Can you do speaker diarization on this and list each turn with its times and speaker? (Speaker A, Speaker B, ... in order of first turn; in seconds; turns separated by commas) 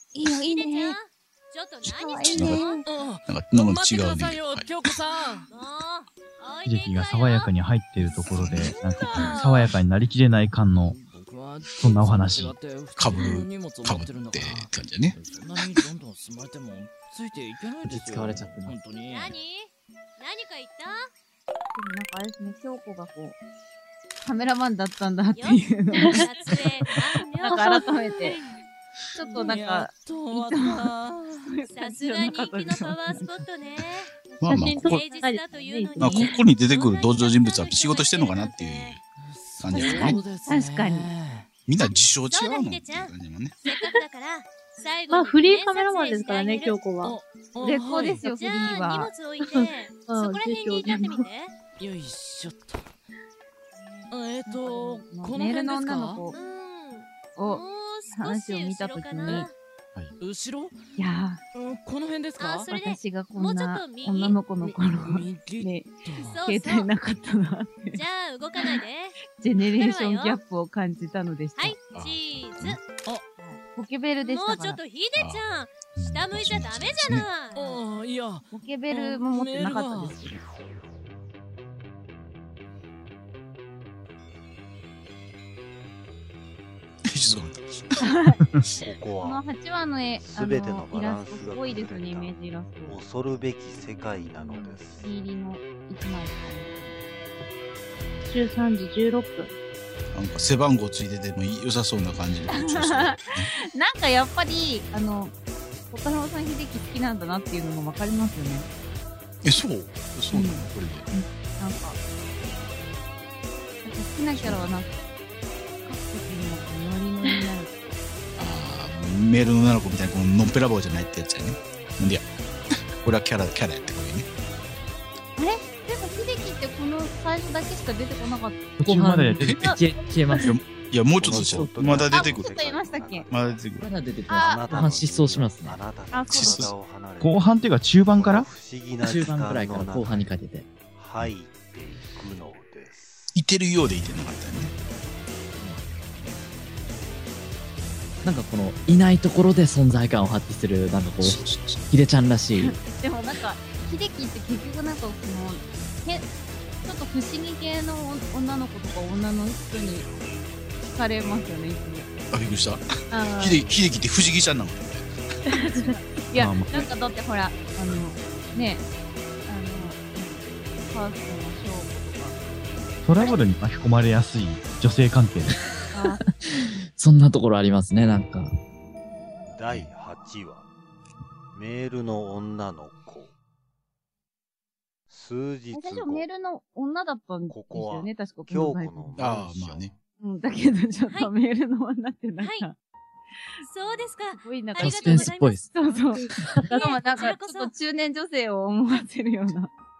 Speaker A: 0.1-1.0, Speaker B: 0.4-2.8, Speaker A: 1.9-2.8, Speaker C: 2.3-2.7, Speaker D: 2.8-5.5, Speaker C: 3.3-4.7, Speaker B: 5.5-7.5, Speaker E: 6.6-11.0, Speaker D: 8.4-9.8, Speaker D: 10.8-19.4, Speaker E: 11.8-12.6, Speaker C: 13.0-15.2, Speaker F: 17.8-18.8, Speaker B: 19.0-21.1, Speaker A: 21.7-23.4, Speaker A: 24.2-28.4, Speaker B: 25.3-28.6, Speaker A: 29.1-33.4, Speaker D: 29.3-31.4, Speaker B: 31.7-34.1, Speaker C: 34.4-35.0, Speaker G: 34.5-36.3, Speaker B: 34.6-39.0, Speaker C: 36.0-39.0, Speaker D: 39.2-41.5, Speaker C: 39.6-40.2, Speaker A: 39.7-41.1, Speaker C: 41.6-43.6, Speaker B: 42.3-46.9, Speaker G: 45.1-47.1, Speaker D: 47.0-48.2, Speaker A: 47.6-49.1, Speaker B: 48.2-51.5, Speaker G: 49.4-51.2, Speaker D: 51.8-52.9, Speaker D: 54.1-56.3, Speaker A: 54.5-56.3, Speaker B: 56.3-59.5, Speaker A: 57.3-59.5, Speaker D: 60.2-60.9, Speaker A: 61.0-61.4, Speaker D: 61.5-62.7, Speaker B: 62.4-64.4, Speaker A: 62.7-68.0, Speaker D: 64.6-66.4, Speaker B: 66.2-66.9, Speaker B: 67.9-70.4, Speaker A: 69.2-71.8, Speaker B: 71.5-72.9, Speaker C: 71.9-72.8, Speaker A: 73.4-74.8, Speaker B: 74.2-77.8, Speaker C: 75.2-75.4, Speaker C: 75.9-77.3, Speaker D: 77.5-80.2, Speaker A: 78.5-80.4, Speaker C: 87.0-87.9, Speaker A: 88.0-88.4, Speaker H: 88.8-89.5, Speaker A: 89.2-93.0, Speaker H: 90.2-95.1, Speaker A: 94.5-97.0, Speaker G: 98.2-99.5, Speaker C: 100.1-103.5, Speaker A: 102.5-105.3, Speaker A: 105.9-108.7, Speaker C: 109.4-111.1, Speaker A: 110.3-112.0, Speaker A: 113.8-115.0, Speaker C: 114.3-114.7, Speaker A: 115.8-118.0, Speaker C: 118.4-122.2, Speaker C: 123.0-124.3, Speaker A: 125.4-128.7, Speaker E: 128.8-129.8, Speaker F: 128.8-130.6, Speaker C: 129.4-129.7, Speaker C: 130.4-132.5, Speaker H: 131.2-133.7, Speaker F: 131.2-132.0, Speaker A: 132.1-133.3, Speaker C: 133.3-133.9, Speaker F: 133.8-135.8, Speaker A: 134.3-134.9, Speaker H: 134.3-140.3, Speaker A: 136.1-136.7, Speaker C: 136.3-136.7, Speaker E: 137.2-138.5, Speaker F: 139.0-140.7, Speaker H: 140.9-143.3, Speaker C: 143.3-144.7, Speaker F: 148.2-152.8, Speaker C: 151.1-151.9, Speaker A: 152.6-156.3, Speaker A: 156.8-160.1, Speaker A: 160.8-162.2, Speaker C: 162.3-165.3, Speaker G: 163.1-163.7, Speaker G: 165.5-165.9, Speaker A: 165.5-168.8, Speaker E: 166.3-166.8, Speaker A: 169.4-172.4, Speaker E: 173.0-175.6, Speaker A: 175.9-176.2, Speaker F: 176.4-178.5, Speaker H: 179.5-180.7, Speaker H: 181.5-183.3, Speaker H: 185.1-186.2, Speaker A: 185.7-189.2, Speaker H: 187.5-190.0, Speaker C: 189.2-189.9, Speaker A: 190.2-192.8, Speaker B: 192.4-192.7, Speaker B: 193.6-196.1, Speaker A: 194.4-199.7, Speaker F: 194.8-195.6, Speaker G: 196.5-196.8, Speaker B: 196.7-197.7